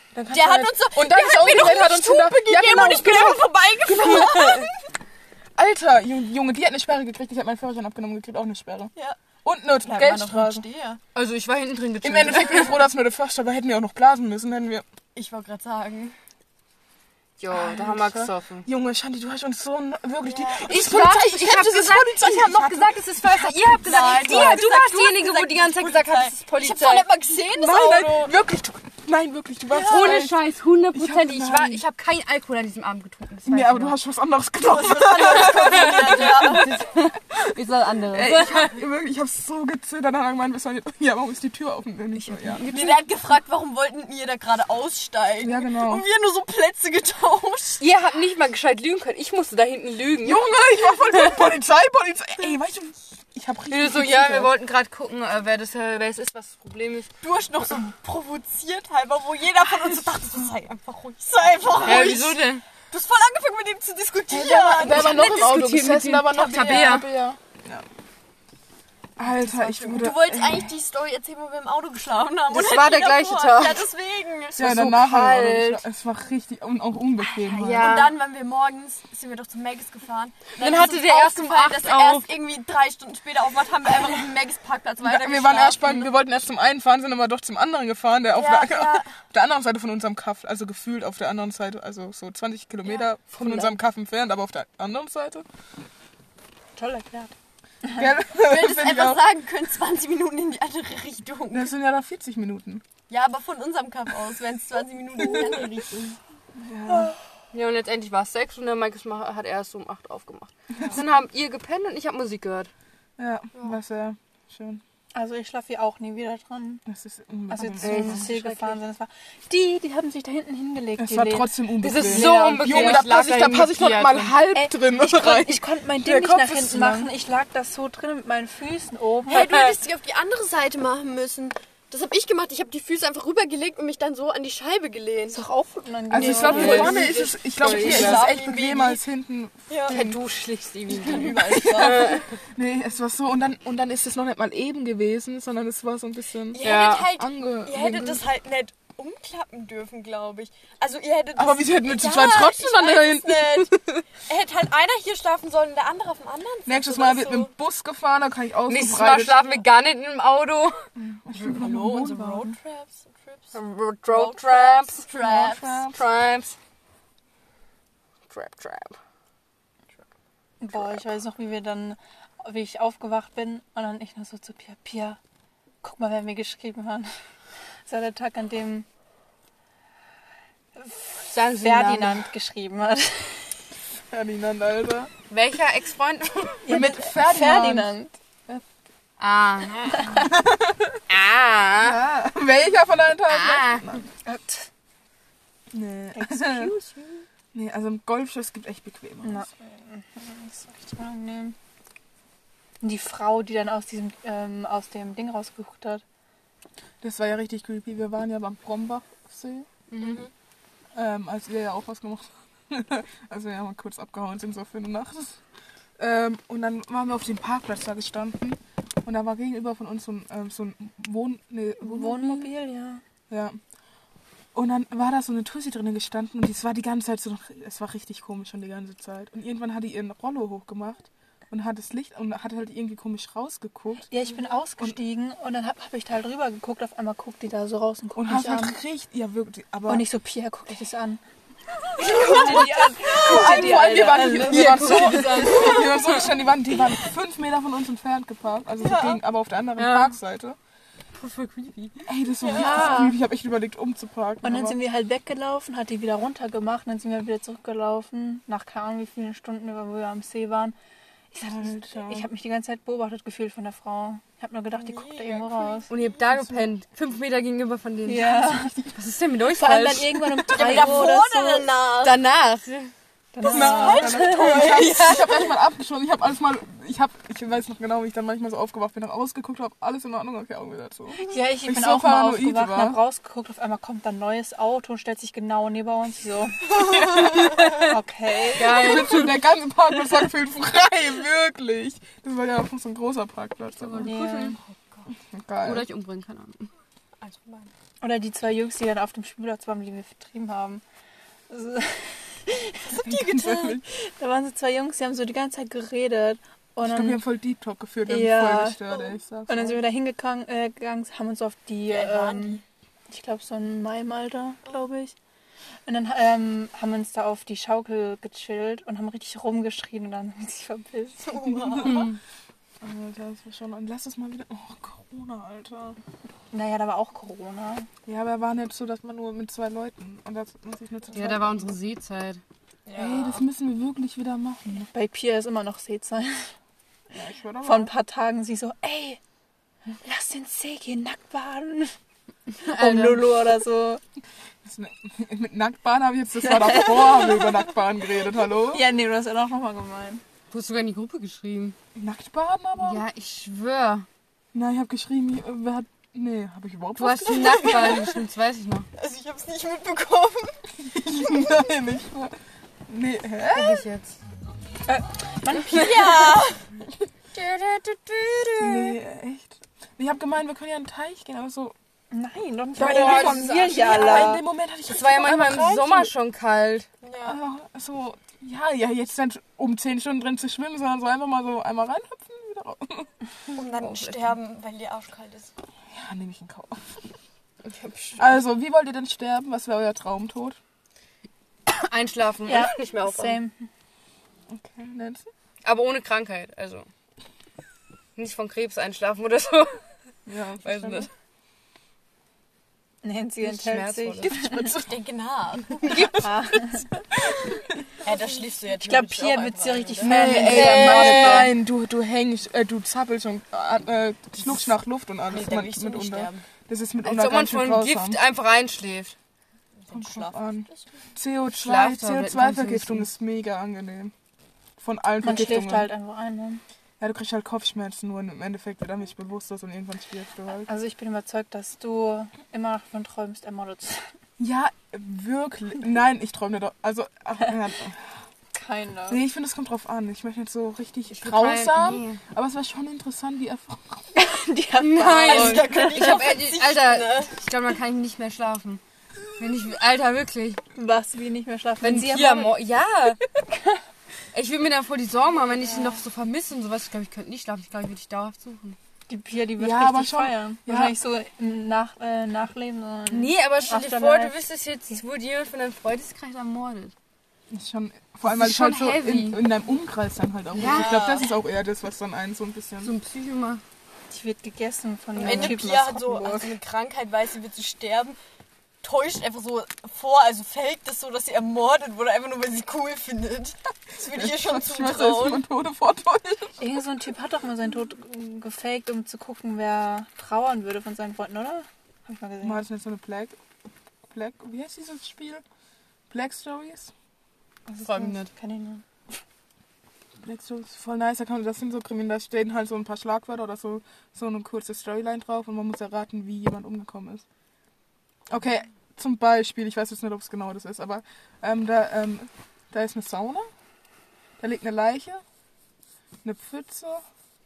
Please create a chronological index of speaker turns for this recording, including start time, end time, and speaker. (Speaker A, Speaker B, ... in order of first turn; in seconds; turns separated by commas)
Speaker A: 0.1-4.7, Speaker B: 0.3-4.7, Speaker A: 5.6-8.9, Speaker A: 9.4-10.7, Speaker B: 9.8-11.0, Speaker C: 11.2-12.8, Speaker A: 12.0-14.8, Speaker B: 12.4-12.7, Speaker B: 15.2-16.2, Speaker C: 17.4-18.7, Speaker A: 17.5-23.5, Speaker B: 20.2-21.0, Speaker C: 20.6-27.1, Speaker B: 23.4-28.3, Speaker A: 24.1-24.6, Speaker A: 27.6-30.4, Speaker B: 29.7-30.3, Speaker C: 29.8-34.0, Speaker A: 30.9-31.8, Speaker A: 33.5-36.8, Speaker B: 34.6-36.8, Speaker C: 35.4-38.7, Speaker A: 38.1-42.6, Speaker C: 42.1-43.0, Speaker B: 42.7-47.8, Speaker A: 45.4-46.0, Speaker C: 47.8-51.5, Speaker A: 50.2-54.5, Speaker C: 53.7-57.1, Speaker B: 57.2-65.6, Speaker C: 61.8-62.6, Speaker A: 64.3-67.8, Speaker C: 65.0-67.1, Speaker B: 66.3-67.1, Speaker A: 69.2-70.7, Speaker B: 69.2-74.8, Speaker C: 72.5-73.9, Speaker A: 74.6-78.0, Speaker C: 74.6-75.8, Speaker C: 77.6-78.1, Speaker B: 77.6-86.1, Speaker C: 80.6-82.3, Speaker A: 85.0-95.5, Speaker B: 88.3-89.1, Speaker D: 96.8-97.3, Speaker A: 97.9-99.2, Speaker B: 98.4-101.7, Speaker A: 101.5-102.8, Speaker B: 103.1-106.2, Speaker A: 105.2-105.7, Speaker A: 106.6-107.1, Speaker C: 107.5-112.7, Speaker A: 113.2-114.8, Speaker D: 115.1-116.8, Speaker A: 116.9-118.3, Speaker D: 117.5-123.1, Speaker C: 117.8-118.8, Speaker A: 121.0-127.1, Speaker C: 121.8-124.5, Speaker D: 124.5-129.6, Speaker B: 129.3-135.4, Speaker C: 129.4-129.7, Speaker D: 135.3-137.1, Speaker A: 136.1-140.2, Speaker B: 136.2-139.0, Speaker C: 136.2-138.3, Speaker B: 139.7-140.0, Speaker C: 139.9-142.3, Speaker B: 140.9-142.3, Speaker A: 141.1-148.2, Speaker B: 146.5-157.5, Speaker C: 146.6-147.1, Speaker A: 151.4-154.1, Speaker A: 156.7-159.4, Speaker C: 158.7-160.8, Speaker A: 161.0-162.5, Speaker B: 161.3-163.6, Speaker C: 163.5-165.1, Speaker B: 164.1-165.9, Speaker A: 165.2-166.0, Speaker C: 165.9-166.6, Speaker C: 168.3-169.0, Speaker D: 170.6-175.2, Speaker D: 175.8-177.1, Speaker D: 177.9-178.9, Speaker D: 180.8-183.6, Speaker C: 181.3-182.3, Speaker A: 184.1-185.1, Speaker C: 185.3-186.6, Speaker D: 186.7-188.1, Speaker A: 186.7-187.9, Speaker C: 189.2-190.3, Speaker D: 190.0-190.2, Speaker A: 190.2-191.0, Speaker C: 191.1-192.0, Speaker A: 191.8-194.1, Speaker C: 193.3-193.9, Speaker D: 194.2-194.7, Speaker A: 195.7-196.7, Speaker D: 196.2-197.2, Speaker A: 197.5-199.5, Speaker D: 199.2-201.6, Speaker D: 202.8-206.0, Speaker A: 207.0-209.7, Speaker C: 209.9-210.2, Speaker B: 210.0-210.3, Speaker A: 210.9-215.4, Speaker A: 216.0-222.5, Speaker D: 221.8-223.0, Speaker A: 223.3-223.6, Speaker A: 224.5-234.1, Speaker D: 234.1-238.8, Speaker A: 238.2-240.1, Speaker D: 239.9-241.2, Speaker D: 242.0-245.6, Speaker B: 242.0-243.9, Speaker A: 242.0-250.6, Speaker C: 244.2-246.3, Speaker B: 248.8-249.2, Speaker C: 249.8-250.2, Speaker C: 251.2-252.1, Speaker A: 252.1-254.8, Speaker B: 252.4-253.0, Speaker D: 252.5-253.2, Speaker D: 254.4-260.8, Speaker D: 261.3-265.9, Speaker A: 261.4-262.3, Speaker B: 264.8-266.1, Speaker C: 265.9-271.1, Speaker D: 268.1-268.8, Speaker A: 268.5-268.9, Speaker D: 269.5-271.7, Speaker B: 270.5-272.2, Speaker C: 272.0-272.9, Speaker D: 273.3-274.9, Speaker A: 273.4-283.0, Speaker B: 273.4-275.5, Speaker D: 281.2-289.3, Speaker B: 286.8-287.8, Speaker A: 286.9-287.9, Speaker C: 288.6-289.4, Speaker A: 288.6-294.1, Speaker C: 293.8-294.6, Speaker D: 294.0-294.6, Speaker B: 294.6-295.1, Speaker A: 295.3-295.8, Speaker C: 295.6-296.7, Speaker B: 297.2-297.7, Speaker D: 298.0-300.8, Speaker D: 301.5-303.0, Speaker B: 302.9-303.8, Speaker A: 303.0-303.8, Speaker D: 303.9-307.2, Speaker A: 306.8-309.8, Speaker D: 308.1-308.9, Speaker D: 309.5-315.1, Speaker B: 311.9-312.6, Speaker D: 315.9-321.8, Speaker B: 321.2-322.1, Speaker A: 321.5-322.1, Speaker C: 321.8-322.1, Speaker A: 322.8-326.0, Speaker D: 326.5-327.9, Speaker A: 328.1-331.7, Speaker C: 331.1-332.4, Speaker B: 332.9-333.4, Speaker A: 333.0-334.9, Speaker D: 334.8-336.5, Speaker A: 337.1-337.9, Speaker D: 337.6-339.2, Speaker D: 340.0-341.9, Speaker D: 342.6-344.0, Speaker C: 342.6-343.2, Speaker A: 344.6-348.9, Speaker D: 346.4-347.6, Speaker D: 348.7-350.2, Speaker C: 350.5-351.8, Speaker A: 351.9-353.0, Speaker C: 352.8-354.1, Speaker A: 354.5-358.1, Speaker C: 357.0-358.9, Speaker B: 357.6-358.0, Speaker B: 359.0-360.6, Speaker A: 360.8-362.4, Speaker A: 362.9-363.8, Speaker C: 363.5-364.2, Speaker D: 364.9-366.3, Speaker B: 365.6-366.6, Speaker C: 367.3-368.9, Speaker A: 368.6-371.8, Speaker D: 372.1-374.4, Speaker A: 372.8-376.1, Speaker C: 372.8-374.3, Speaker C: 374.9-376.9, Speaker B: 377.0-377.4, Speaker A: 377.2-383.1, Speaker B: 383.6-385.5, Speaker C: 383.6-384.4, Speaker A: 385.9-387.1, Speaker C: 387.6-388.2, Speaker A: 388.2-390.6, Speaker C: 391.7-393.4, Speaker D: 392.5-393.7, Speaker A: 394.5-395.3, Speaker C: 395.6-396.9, Speaker C: 398.2-399.8, Speaker A: 400.3-401.1, Speaker C: 400.6-401.1, Speaker D: 403.0-404.7, Speaker C: 403.4-404.4, Speaker B: 404.3-406.2, Speaker D: 406.0-406.9, Speaker A: 407.1-407.8, Speaker B: 408.0-410.5, Speaker D: 408.8-411.6, Speaker A: 410.0-418.2, Speaker C: 410.3-411.5, Speaker B: 415.3-416.4, Speaker C: 417.0-419.1, Speaker B: 419.8-420.8, Speaker A: 419.9-424.1, Speaker C: 421.5-423.1, Speaker A: 424.8-425.9, Speaker D: 425.2-426.6, Speaker A: 427.0-430.7, Speaker D: 430.7-434.1, Speaker A: 434.4-438.1, Speaker D: 438.5-439.2, Speaker A: 439.1-444.1, Speaker C: 441.1-442.2, Speaker D: 444.1-446.2, Speaker C: 444.8-448.8, Speaker B: 445.2-447.4, Speaker C: 449.4-450.6, Speaker D: 450.8-452.6, Speaker C: 451.8-453.2, Speaker D: 453.5-453.8, Speaker C: 454.3-458.8, Speaker B: 455.4-456.0, Speaker D: 459.1-464.4, Speaker A: 459.6-460.9, Speaker C: 463.1-466.9, Speaker A: 467.5-472.9, Speaker C: 468.2-469.4, Speaker C: 470.5-471.0, Speaker B: 470.6-471.4, Speaker C: 472.8-473.6, Speaker D: 474.1-476.6, Speaker B: 475.2-478.2, Speaker B: 478.8-485.4, Speaker A: 484.0-486.6, Speaker D: 486.6-492.6, Speaker A: 492.4-493.4, Speaker A: 494.1-495.4, Speaker A: 496.1-496.9, Speaker D: 497.7-499.1, Speaker C: 497.8-498.3, Speaker A: 500.2-507.2, Speaker A: 508.3-513.5, Speaker A: 514.4-515.2, Speaker A: 516.2-517.0